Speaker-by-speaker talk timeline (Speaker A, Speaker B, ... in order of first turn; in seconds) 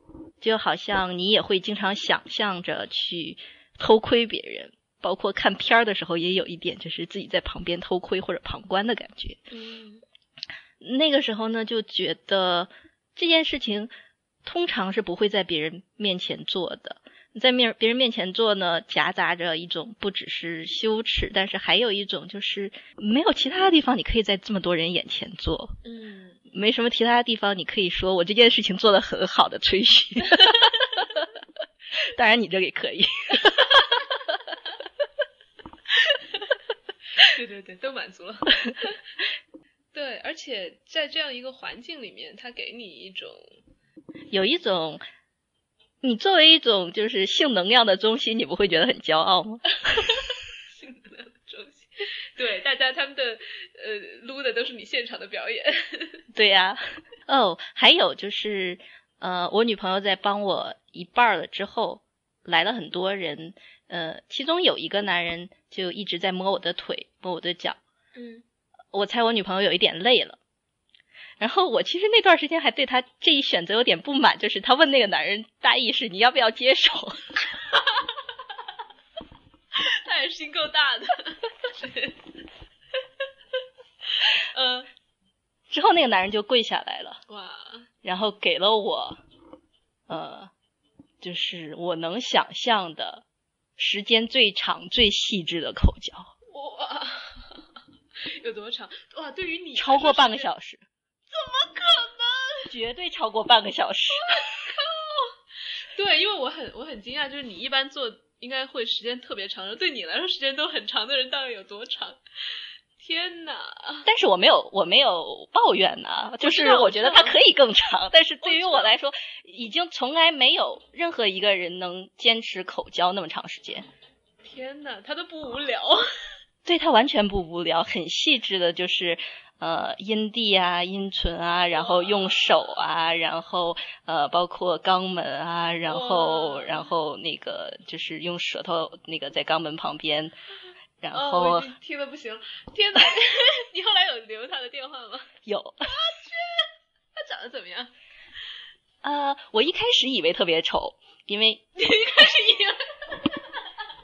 Speaker A: 0.4-9.4, 10.8-13.9, 14.4-25.8, 26.5-31.0, 31.9-34.0, 44.3-45.0, 46.0-50.0, 56.3-67.8, 68.9-70.4, 71.4-77.4, 85.7-87.2, 88.0-89.2, 90.1-90.5, 91.2-93.2, 93.8-96.3, 99.8-100.8, 102.7-104.5, 114.0-123.9, 126.7-140.3, 141.0-141.7, 145.5-145.9, 149.0-151.7
Speaker B: 9.5-10.0, 25.8-26.4, 37.2-38.9, 39.9-43.5, 50.7-56.2, 68.2-68.4, 79.8-82.3, 84.2-84.9, 87.3-87.9, 96.5-97.7, 98.2-100.5, 101.3-102.7, 104.3-105.4, 105.9-112.2, 113.0-114.1, 116.4-117.4, 118.4-119.0, 124.4-126.1, 131.7-132.4, 135.9-136.9, 141.1-147.9, 151.8-153.4